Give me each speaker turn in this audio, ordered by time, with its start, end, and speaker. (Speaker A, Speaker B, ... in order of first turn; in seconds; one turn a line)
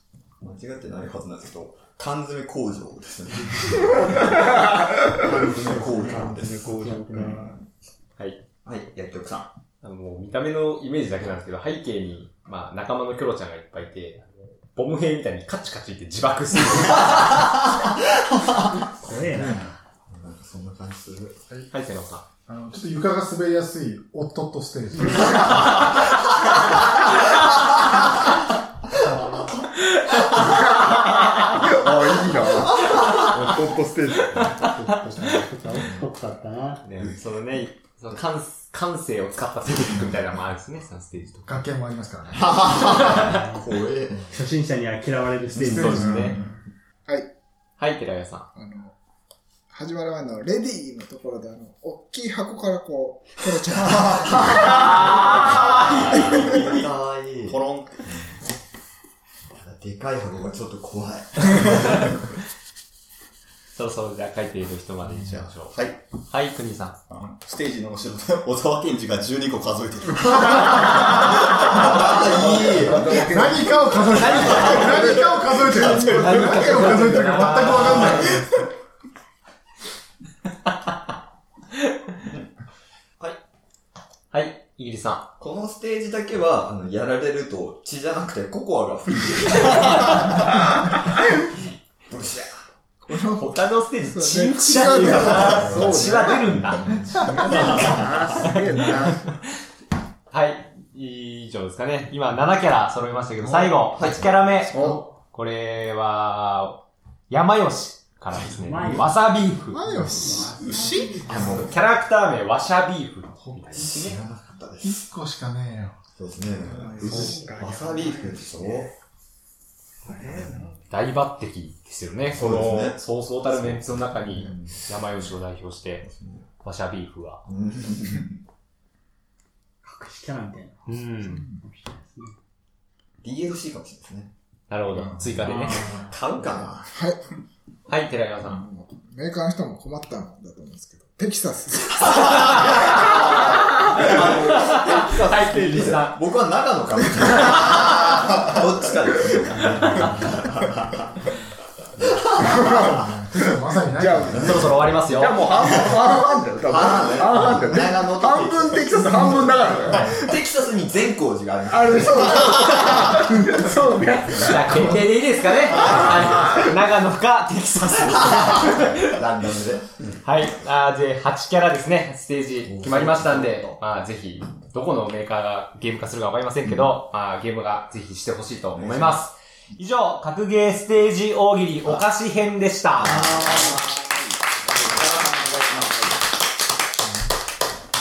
Speaker A: 0.4-6.7
Speaker B: 4.0-7.5
Speaker C: 5.2-7.5
Speaker A: 8.6-9.5
Speaker D: 9.8-17.4
Speaker C: 18.8-19.8
Speaker E: 19.4-19.6
Speaker A: 20.1-21.4
Speaker D: 21.7-22.2
Speaker E: 22.5-25.8
Speaker C: 29.0-29.5
Speaker B: 30.5-35.1
Speaker C: 34.7-36.8
Speaker D: 36.8-41.6
Speaker E: 41.5-42.6
Speaker A: 42.3-44.3
Speaker C: 42.9-43.6
Speaker C: 44.3-46.4
Speaker E: 45.6-46.5
Speaker D: 45.6-46.4
Speaker D: 47.8-48.5
Speaker F: 48.5-48.9
Speaker F: 49.7-56.6
Speaker A: 54.6-58.4
Speaker G: 57.4-58.2
Speaker A: 59.5-62.2
Speaker D: 63.7-65.7
Speaker G: 65.2-66.0
Speaker D: 66.3-67.0
Speaker G: 67.1-71.2
Speaker A: 71.5-73.3
Speaker B: 71.9-75.4
Speaker E: 73.2-78.5
Speaker A: 74.2-75.7
Speaker D: 74.2-74.8
Speaker D: 75.7-78.4
Speaker B: 76.6-76.8
Speaker D: 84.3-85.3
Speaker A: 85.4-90.6
Speaker D: 89.7-90.1
Speaker A: 92.1-92.6
Speaker F: 93.0-95.9
Speaker D: 93.4-97.8
Speaker A: 95.1-98.2
Speaker B: 95.2-99.2
Speaker D: 100.3-109.8
Speaker A: 103.8-104.8
Speaker B: 104.7-105.0
Speaker C: 108.6-109.2
Speaker F: 109.7-111.5
Speaker C: 109.7-111.7
Speaker A: 111.3-111.7
Speaker D: 111.4-114.2
Speaker E: 113.5-114.1
Speaker A: 113.7-115.0
Speaker E: 114.8-116.0
Speaker A: 116.2-118.9
Speaker B: 116.7-118.8
Speaker F: 117.1-117.6
Speaker B: 120.0-120.8
Speaker D: 120.9-126.1
Speaker A: 122.3-123.0
Speaker A: 124.4-124.8
Speaker A: 126.0-126.5
Speaker D: 126.6-127.4
Speaker A: 127.5-128.4
Speaker C: 129.8-132.3
Speaker D: 130.8-131.4
Speaker F: 131.2-131.6
Speaker A: 133.2-134.3
Speaker D: 134.7-135.9
Speaker A: 135.4-136.9
Speaker E: 135.4-136.1
Speaker F: 136.9-137.2
Speaker D: 137.9-138.6
Speaker F: 138.4-142.6
Speaker A: 142.6-151.2
Speaker D: 144.0-146.2
Speaker A: 152.4-152.9
Speaker E: 152.7-154.8
Speaker B: 153.3-160.2
Speaker D: 154.4-155.4
Speaker A: 156.7-163.2
Speaker B: 161.7-164.8
Speaker D: 164.3-169.2
Speaker A: 165.7-166.6
Speaker B: 165.8-166.6
Speaker A: 168.0-170.2
Speaker D: 170.2-183.3
Speaker A: 172.7-173.8
Speaker A: 178.7-179.2
Speaker A: 183.0-183.9
Speaker F: 183.5-183.8
Speaker A: 184.8-186.1